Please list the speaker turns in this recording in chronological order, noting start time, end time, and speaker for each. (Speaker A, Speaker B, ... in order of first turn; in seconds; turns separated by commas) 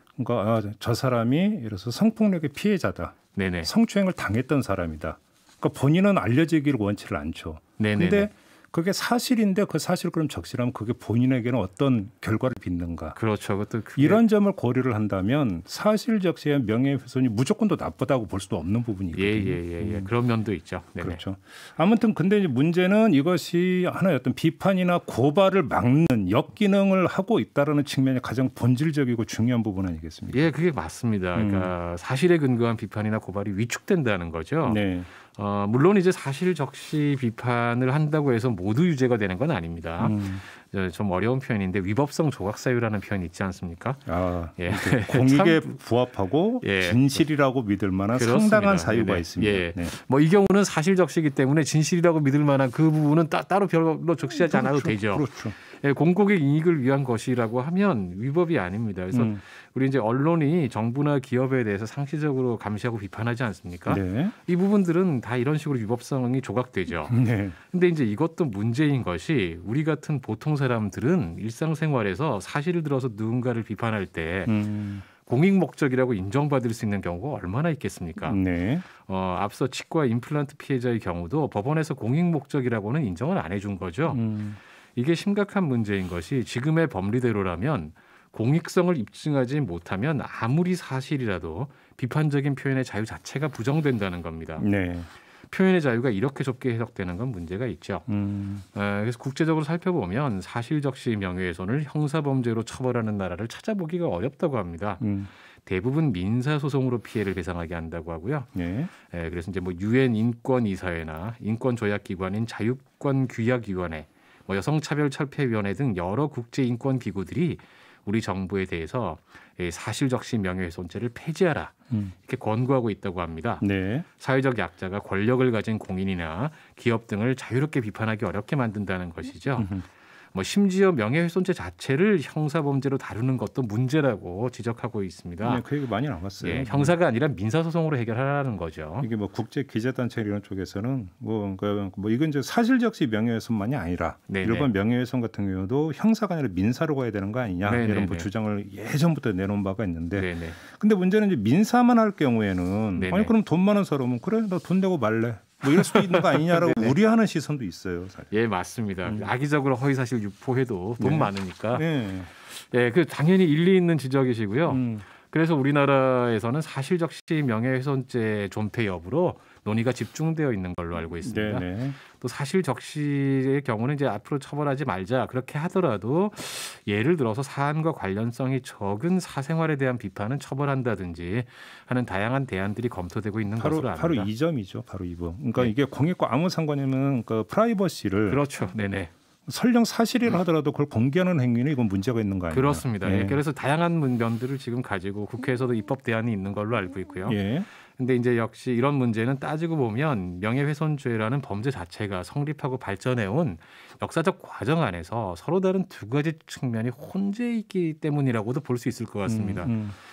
Speaker A: 0.2-13.2, Speaker B: 3.4-3.7, Speaker B: 7.8-8.3, Speaker B: 13.2-14.2, Speaker A: 14.0-20.1, Speaker B: 19.1-21.2, Speaker A: 21.0-30.5, Speaker B: 30.3-44.0, Speaker A: 31.4-31.7, Speaker A: 34.6-35.1, Speaker A: 40.0-40.4, Speaker A: 44.1-49.9, Speaker B: 44.6-45.7, Speaker B: 46.6-47.1, Speaker B: 48.1-67.2, Speaker A: 54.3-55.6, Speaker A: 59.1-59.4, Speaker A: 63.9-64.3, Speaker A: 67.1-67.6, Speaker B: 67.7-74.5, Speaker A: 74.5-75.1, Speaker B: 75.2-78.4, Speaker A: 78.2-78.8, Speaker B: 79.0-84.2, Speaker A: 84.1-84.6, Speaker B: 85.0-94.7, Speaker A: 94.6-95.1, Speaker B: 95.5-98.0, Speaker A: 98.1-98.7, Speaker B: 98.7-105.0, Speaker A: 105.0-105.3, Speaker B: 105.7-108.5, Speaker A: 108.5-108.9, Speaker B: 109.1-121.7, Speaker B: 122.2-123.7, Speaker A: 123.6-124.0, Speaker B: 124.2-129.7, Speaker A: 129.6-129.8, Speaker B: 130.3-135.7, Speaker A: 135.4-137.0, Speaker B: 136.4-139.1, Speaker A: 139.0-158.3, Speaker B: 144.3-144.7, Speaker B: 147.6-148.3, Speaker B: 150.1-150.6, Speaker B: 153.0-153.3, Speaker B: 155.7-157.0, Speaker B: 158.3-161.9, Speaker A: 161.0-162.3, Speaker B: 162.4-184.3, Speaker A: 164.7-165.1, Speaker A: 171.2-172.0, Speaker A: 183.6-188.4, Speaker B: 188.3-189.1, Speaker A: 189.5-193.4, Speaker B: 192.5-197.4, Speaker A: 197.3-197.7, Speaker B: 198.0-209.8, Speaker A: 209.3-210.0